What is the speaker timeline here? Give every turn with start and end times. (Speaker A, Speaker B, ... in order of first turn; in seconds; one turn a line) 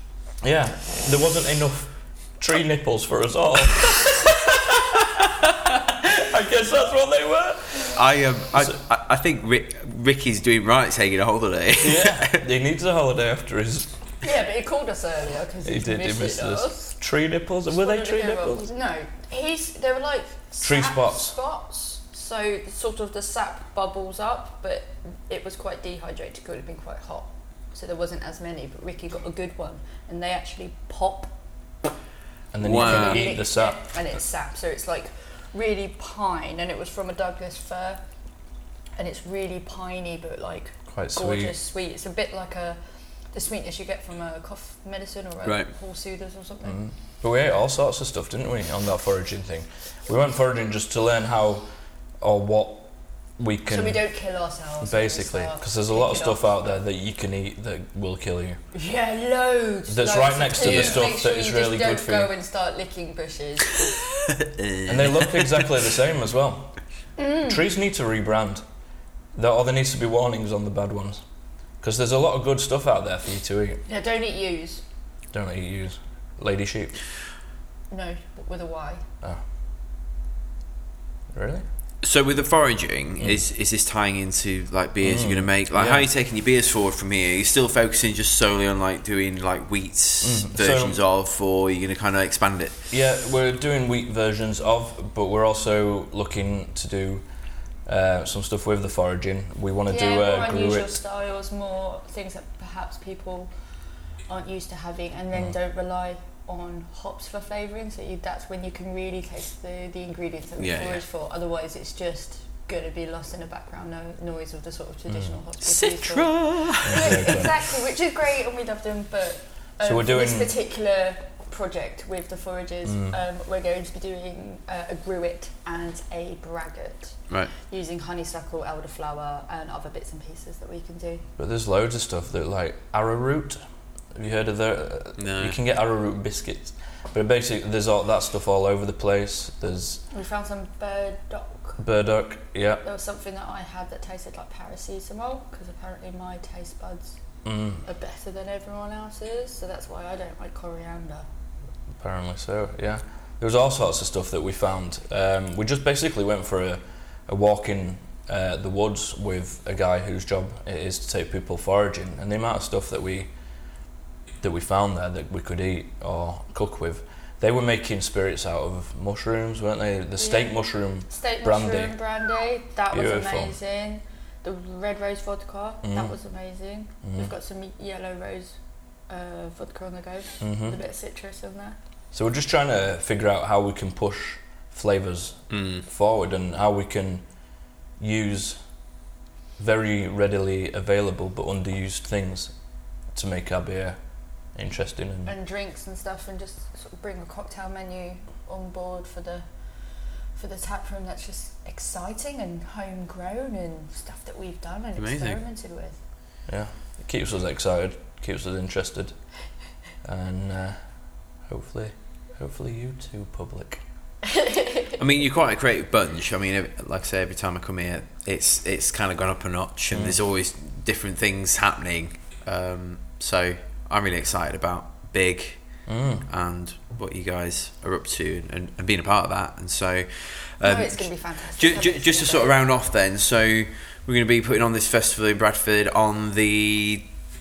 Speaker A: 0.4-8.0
Speaker B: 7.9-12.4
Speaker A: 11.8-13.9
Speaker C: 14.2-16.9
Speaker A: 15.6-18.6
Speaker C: 17.7-31.3
Speaker A: 20.6-21.3
Speaker A: 32.5-33.8
Speaker B: 32.6-33.3
Speaker C: 32.6-38.0
Speaker C: 39.0-42.8
Speaker A: 40.9-41.5
Speaker C: 43.3-46.8
Speaker B: 45.4-45.7
Speaker A: 46.6-51.7
Speaker A: 52.2-54.0
Speaker C: 53.7-56.8
Speaker A: 54.8-58.6
Speaker C: 58.7-64.0
Speaker A: 59.9-62.3
Speaker B: 60.6-61.0
Speaker B: 64.3-65.7
Speaker A: 64.9-66.8
Speaker C: 67.2-67.6
Speaker A: 67.4-68.6
Speaker A: 69.3-71.2
Speaker A: 71.8-73.8
Speaker C: 73.9-74.8
Speaker A: 75.3-77.0
Speaker C: 77.9-79.0
Speaker A: 81.3-81.6
Speaker B: 82.0-92.8
Speaker A: 85.0-86.1
Speaker A: 90.2-91.0
Speaker A: 92.9-97.2
Speaker A: 97.8-101.0
Speaker C: 99.9-103.5
Speaker C: 104.3-131.2
Speaker B: 110.6-111.0
Speaker B: 115.6-117.5
Speaker A: 116.8-117.5
Speaker A: 119.8-120.5
Speaker A: 122.8-123.2
Speaker A: 131.4-133.6
Speaker A: 134.1-140.0
Speaker B: 135.2-135.6
Speaker C: 140.1-141.8
Speaker A: 141.8-142.8
Speaker C: 142.8-147.2
Speaker A: 147.4-147.8
Speaker C: 147.8-151.2
Speaker A: 152.0-163.3
Speaker A: 164.4-171.9
Speaker C: 170.2-170.6
Speaker C: 171.1-178.5
Speaker A: 172.9-173.5
Speaker A: 175.8-176.1
Speaker A: 177.0-177.3
Speaker C: 179.1-181.8
Speaker A: 180.4-180.8
Speaker A: 182.1-187.2
Speaker B: 185.5-185.8
Speaker A: 188.0-188.6
Speaker A: 189.6-192.5
Speaker A: 193.1-194.0
Speaker A: 194.5-195.3
Speaker C: 195.2-199.4
Speaker C: 200.3-206.0
Speaker B: 205.0-205.4
Speaker A: 206.5-209.1
Speaker A: 210.0-210.8
Speaker A: 211.4-213.8
Speaker C: 214.3-214.9
Speaker B: 214.9-225.6
Speaker A: 219.9-220.2
Speaker A: 225.9-226.2
Speaker B: 226.3-237.1
Speaker C: 230.6-232.6